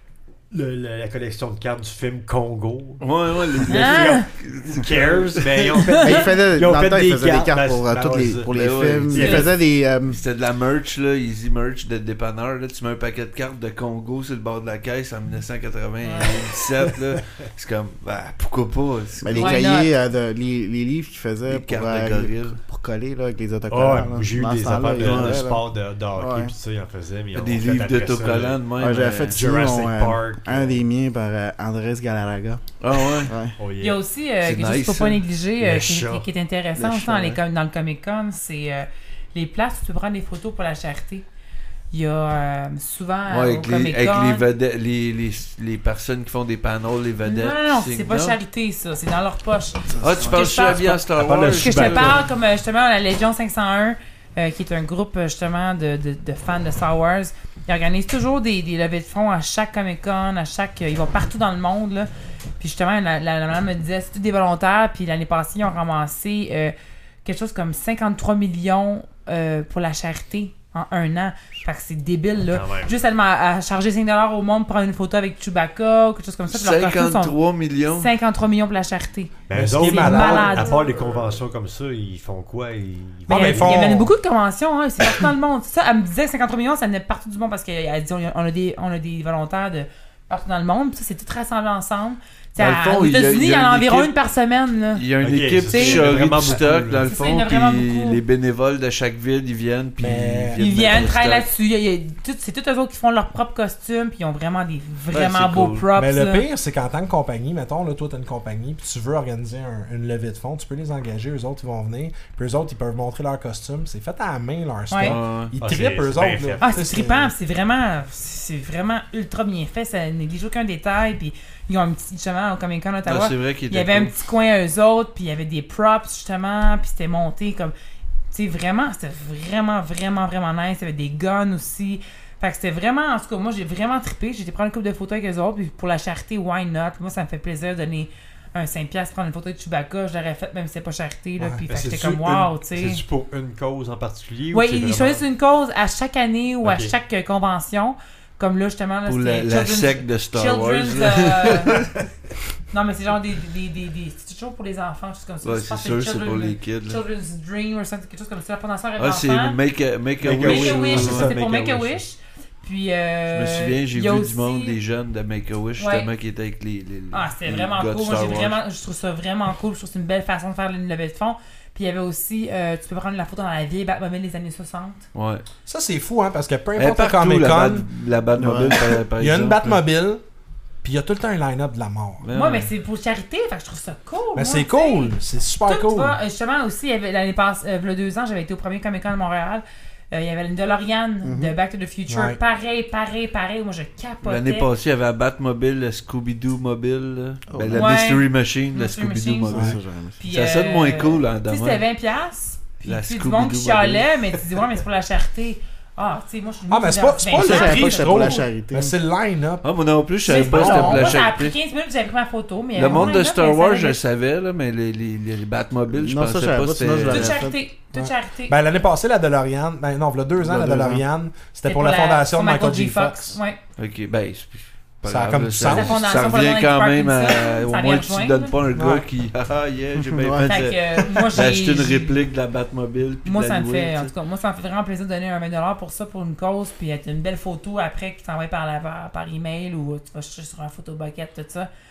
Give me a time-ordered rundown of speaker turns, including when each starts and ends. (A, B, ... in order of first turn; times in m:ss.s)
0:00.5-0:09.5 A
0:03.0-0:05.8 B
0:03.7-0:04.3 C
0:05.8-0:06.1 C
0:06.0-0:10.2 D
0:08.5-0:09.5 B
0:10.1-0:19.6 B
0:16.0-0:16.3 C
0:16.9-0:17.2 A
0:19.2-0:25.6 D
0:19.4-0:19.9 C
0:21.5-0:22.6 B
0:23.7-0:28.6 A
0:25.0-0:25.5 B
0:26.2-0:26.5 D
0:27.3-0:29.4 B
0:28.8-0:33.6 D
0:29.3-0:30.8 A
0:32.8-0:33.3 B
0:33.6-0:34.0 A
0:33.8-0:41.3 C
0:34.4-0:35.2 B
0:35.6-0:36.3 A
0:36.8-0:37.4 B
0:41.9-0:44.4 C
0:43.3-0:48.4 B
0:47.2-1:02.1 C
0:50.0-0:52.2 B
0:51.2-0:52.3 A
1:02.6-1:06.7 C
1:07.2-1:17.4 C
1:12.5-1:12.9 A
1:16.5-1:18.1 B
1:17.9-1:21.0 C
1:19.5-1:24.0 A
1:19.5-1:20.9 E
1:23.3-1:24.1 E
1:23.3-1:35.0 C
1:32.6-1:34.1 B
1:34.9-1:41.5 B
1:35.2-1:37.1 A
1:35.7-1:36.1 C
1:37.1-1:38.2 C
1:40.0-1:40.6 E
1:40.6-1:46.5 C
1:45.1-1:45.9 B
1:46.0-1:57.3 E
1:54.9-1:55.2 C
1:55.0-1:55.5 B
1:55.6-1:56.8 A
1:56.6-2:07.7 C
2:03.1-2:04.2 B
2:08.3-2:23.0 C
2:21.7-2:25.2 A
2:24.5-2:31.8 C
2:26.6-2:26.9 A
2:29.1-2:31.9 B
2:32.7-2:39.6 C
2:35.4-2:37.0 B
2:39.0-2:41.3 B
2:40.2-2:42.0 A
2:40.4-2:44.8 C
2:43.3-2:48.6 B
2:45.8-2:46.1 C
2:47.1-2:55.0 C
2:55.1-2:55.4 B
2:55.7-2:57.9 E
2:56.8-2:59.8 B
2:58.4-2:58.8 D
2:59.2-3:00.2 E
3:00.8-3:02.2 E
3:02.2-3:02.7 B
3:02.3-3:14.7 C
3:04.4-3:06.2 E
3:11.2-3:11.5 D
3:12.1-3:12.4 E
3:14.2-3:19.8 B
3:17.5-3:17.9 D
3:17.7-3:19.6 C
3:19.5-3:20.2 D
3:20.2-3:28.5 C
3:20.3-3:21.8 B
3:22.8-3:24.1 B
3:26.7-3:29.7 E
3:27.4-3:29.0 D
3:29.6-3:31.5 B
3:30.3-3:31.2 E
3:30.3-3:34.0 C
3:32.8-3:37.4 B
3:35.9-3:37.6 D
3:37.1-3:38.6 C
3:38.0-3:43.4 E
3:40.4-3:41.0 D
3:41.6-3:43.6 C
3:43.8-3:54.1 B
3:45.1-3:46.0 E
3:45.7-3:48.5 C
3:48.8-3:49.0 E
3:50.0-3:50.7 D
3:50.4-3:52.2 C
3:53.2-4:01.7 C